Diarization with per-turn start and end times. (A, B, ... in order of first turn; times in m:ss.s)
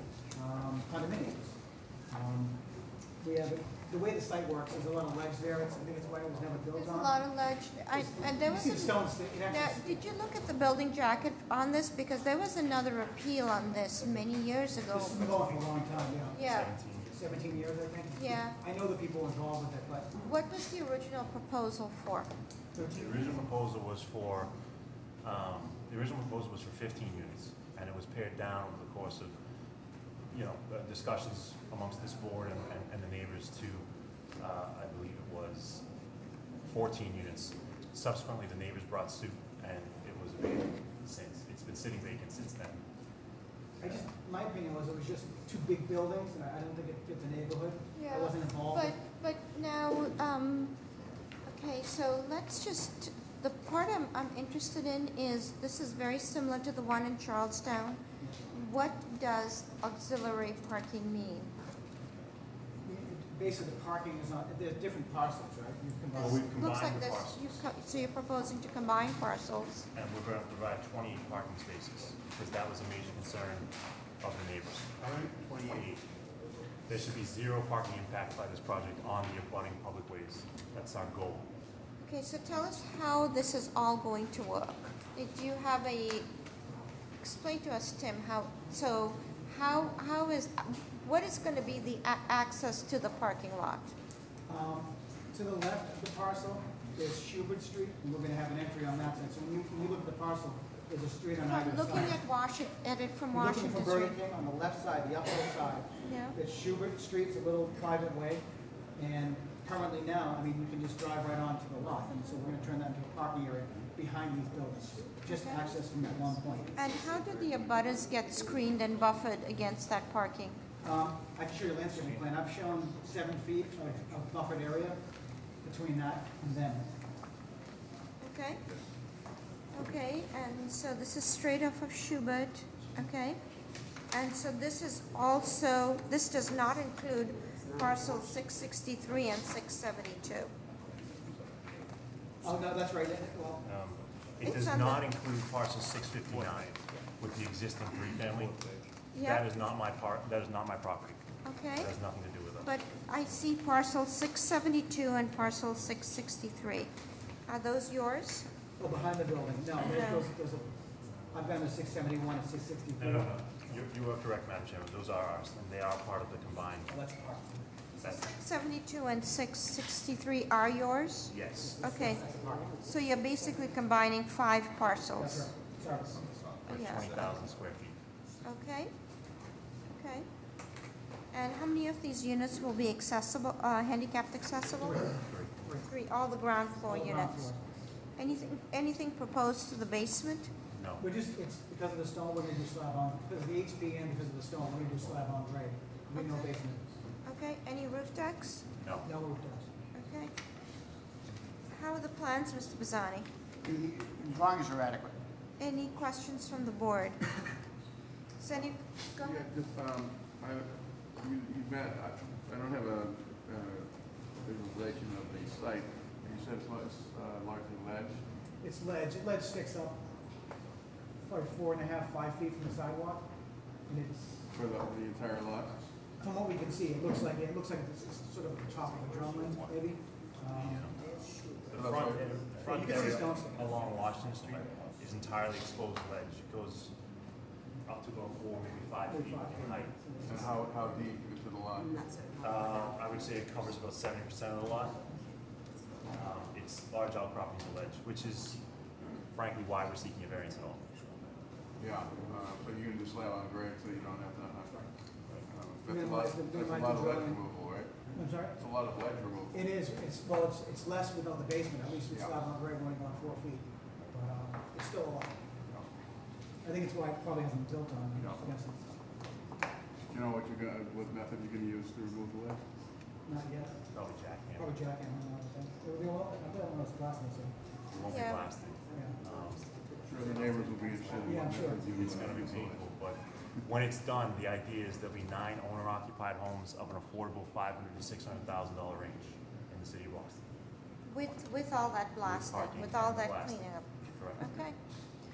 0:00.3-0:01.6 A
0:02.1-0:02.6 A
0:03.2-0:07.2 A
0:06.8-0:15.3 B
0:07.9-0:09.9 A
0:14.9-0:16.4 A
0:15.3-0:15.6 C
0:16.3-0:16.7 B
0:16.3-0:17.2 C
0:17.1-0:20.1 A
0:18.2-0:18.6 B
0:20.2-0:22.3 B
0:22.7-0:23.4 A
0:22.9-0:24.5 C
0:25.2-0:29.4 C
0:30.3-0:33.9 C
0:34.4-0:35.8 C
0:36.6-0:42.8 C
0:43.8-0:49.0 A
0:48.0-0:50.7 B
0:51.5-0:58.0 B
0:58.2-0:58.4 A
0:58.5-1:01.5 B
1:02.8-1:06.5 A
1:06.1-1:07.6 C
1:06.2-1:09.9 B
1:09.9-1:13.7 C
1:14.2-1:16.0 C
1:16.9-1:21.5 C
1:22.0-1:26.3 B
1:27.2-1:33.9 B
1:34.5-1:42.2 A
1:41.4-1:44.2 B
1:43.3-1:48.4 A
1:46.0-1:46.4 B
1:49.0-1:56.7 A
1:56.8-2:00.6 B
2:00.8-2:05.0 A
2:05.6-2:06.9 A
2:08.2-2:08.6 B
2:09.7-2:13.4 B
2:14.1-2:20.5 B
2:22.4-2:23.6 A
2:23.6-2:28.6 C
2:24.4-2:25.0 B
2:26.3-2:26.6 D
2:29.1-2:29.4 B
2:29.2-2:31.2 C
2:31.4-2:31.9 B
2:31.7-2:32.7 C
2:32.6-2:36.9 B
2:37.5-2:38.5 B
2:38.8-2:40.7 A
2:39.8-2:40.3 B
2:41.3-2:43.4 A
2:43.0-2:46.9 C
2:46.9-2:47.6 A
2:48.0-2:55.5 B
2:51.3-2:51.8 C
2:51.8-2:52.7 A
2:55.2-2:56.5 A
2:56.6-2:57.4 B
2:56.7-2:58.0 C
2:58.4-2:58.9 B
2:59.9-3:00.2 B
3:01.3-3:05.0 B
3:04.8-3:05.9 A
3:05.0-3:05.5 C
3:05.9-3:07.5 B
3:06.8-3:07.6 A
3:08.2-3:10.5 B
3:10.7-3:11.0 C
3:11.0-3:17.0 A
3:16.1-3:16.5 B
3:17.2-3:18.6 B
3:18.8-3:19.1 C
3:19.0-3:19.7 A
3:19.9-3:20.3 B
3:21.7-3:23.3 B
3:23.8-3:25.0 A
3:25.6-3:27.2 B
3:28.4-3:29.4 B
3:29.2-3:38.2 D
3:38.6-3:40.0 A
3:41.2-3:43.2 A
3:43.9-3:44.4 A
3:44.5-3:45.8 D
3:46.2-3:50.9 A
3:50.6-3:50.9 C
3:51.7-3:56.9 C
3:51.7-3:52.4 D
3:52.6-3:53.7 A
3:57.8-3:59.9 C
3:59.1-4:00.7 A
4:00.3-4:02.1 D
4:02.4-4:05.0 C
4:06.1-4:08.6 C
4:09.3-4:10.8 C
4:11.8-4:14.9 D
4:15.5-4:17.9 D
4:15.8-4:17.4 A
4:18.1-4:18.6 A
4:18.5-4:19.6 D
4:19.5-4:25.3 A
4:22.1-4:22.3 D
4:26.6-4:28.9 A
4:30.1-4:32.6 D
4:33.2-4:33.8 A
4:33.9-4:34.8 C
4:34.6-4:37.5 A
4:37.9-4:39.7 C
4:38.0-4:38.4 B
4:38.9-4:39.2 A
4:40.0-4:42.8 D
4:41.2-4:41.9 A
4:41.3-4:50.4 C
4:51.1-4:54.8 B
4:52.2-4:54.6 C